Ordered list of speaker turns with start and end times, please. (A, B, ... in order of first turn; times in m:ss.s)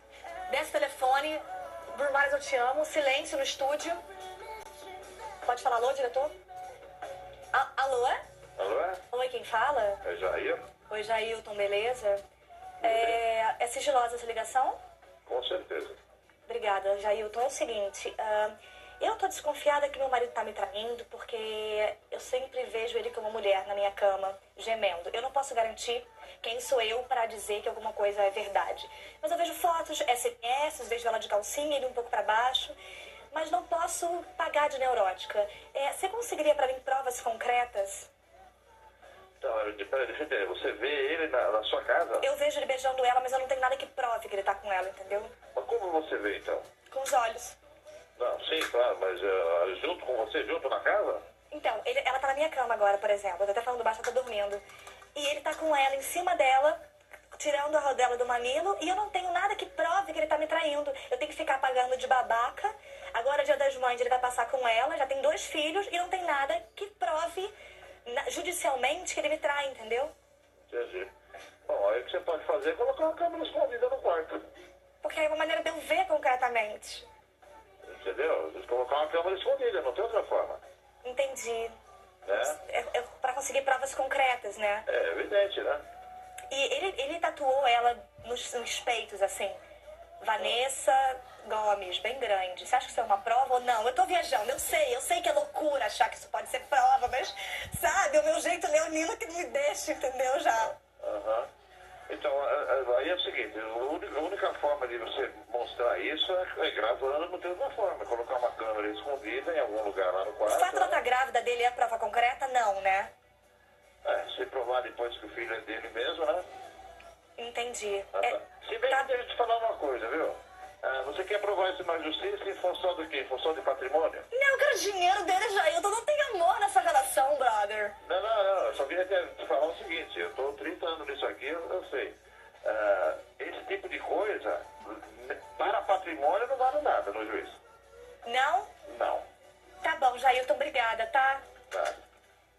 0:00.5-0:04.0 A
0:05.4-0:06.3 A
0:07.5-0:08.2 A
0:08.6-0:09.0 B
0:09.1-0:10.0 A
0:10.0-0:10.7 B
0:10.9-0:12.2 A
0:12.8-0:14.8 A
0:12.8-0:13.2 B
0:15.3-0:16.0 B
0:16.5-0:32.8 A
0:33.3-0:38.1 A
0:39.4-0:42.3 B
0:42.2-0:45.3 A
0:45.6-0:46.7 B
0:46.9-0:47.6 A
0:48.2-0:51.2 B
0:51.5-0:54.6 A
0:55.2-0:56.8 A
0:57.3-1:07.5 A
1:08.0-1:10.1 A
1:10.7-1:11.1 B
1:11.7-1:14.5 B
1:15.0-1:17.0 A
1:17.9-1:20.6 B
1:21.0-1:21.8 A
1:22.3-1:22.6 B
1:22.3-1:24.8 A
1:24.9-1:25.8 B
1:26.5-1:29.6 A
1:30.2-1:40.8 A
1:41.0-1:41.5 B
1:42.1-1:51.0 B
1:50.4-1:53.1 A
1:54.0-1:56.5 B
1:57.4-1:59.1 A
1:58.2-2:04.3 B
2:04.3-2:08.0 A
2:08.0-2:17.6 B
2:18.2-2:18.7 A
2:18.9-2:19.2 B
2:19.8-2:21.4 A
2:21.7-2:22.0 B